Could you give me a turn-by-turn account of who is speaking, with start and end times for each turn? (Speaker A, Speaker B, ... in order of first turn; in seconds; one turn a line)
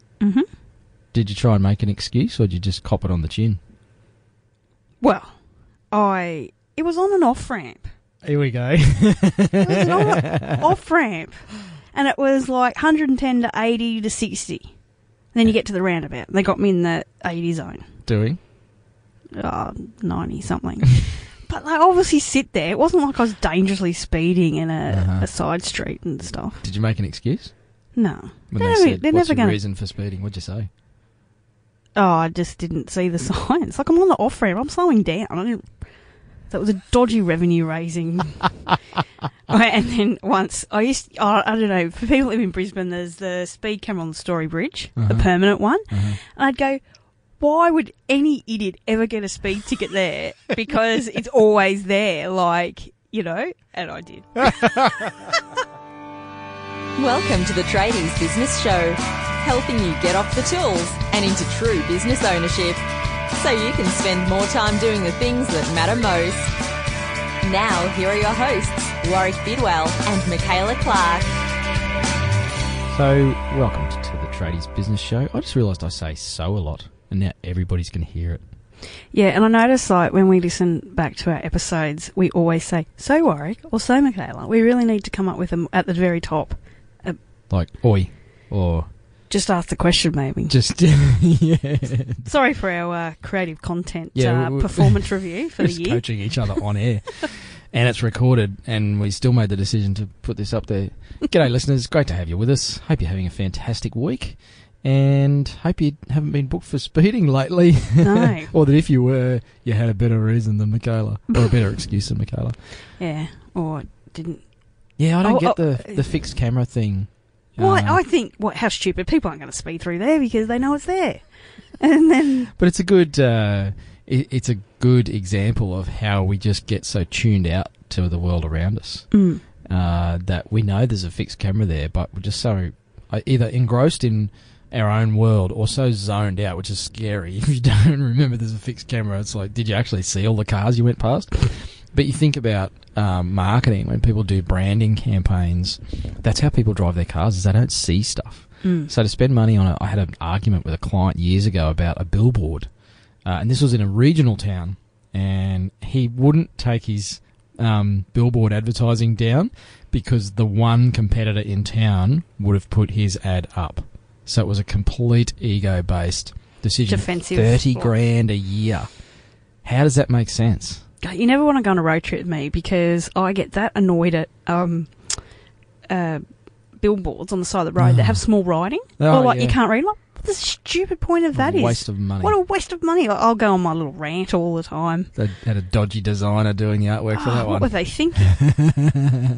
Speaker A: 0.2-0.5
Speaker B: 1.1-3.6
Speaker A: 5.0-5.4
Speaker A: 5.9-7.9
Speaker B: 8.2-10.5
Speaker A: 9.6-17.9
Speaker B: 18.1-18.4
Speaker A: 19.4-26.6
Speaker B: 24.9-25.3
Speaker B: 26.6-27.9
Speaker A: 27.9-29.6
Speaker B: 28.5-30.7
Speaker A: 31.9-38.7
Speaker A: 39.5-46.8
Speaker B: 45.0-46.2
Speaker A: 47.4-55.1
Speaker C: 57.0-66.5
Speaker C: 67.4-71.3
Speaker B: 72.9-78.5
Speaker A: 79.1-87.2
Speaker B: 87.5-88.9
Speaker A: 89.3-90.6
Speaker B: 90.5-92.3
Speaker A: 92.2-96.7
Speaker B: 94.1-112.6
Speaker A: 108.0-108.5
Speaker A: 113.0-116.2
Speaker B: 115.0-118.0
Speaker A: 117.5-122.5
Speaker B: 122.6-170.8
Speaker A: 129.1-129.4
Speaker A: 148.6-148.9
Speaker A: 166.9-167.9
Speaker A: 171.0-185.1
Speaker B: 177.8-179.6
Speaker B: 181.3-182.4
Speaker B: 185.1-188.8
Speaker A: 187.1-188.5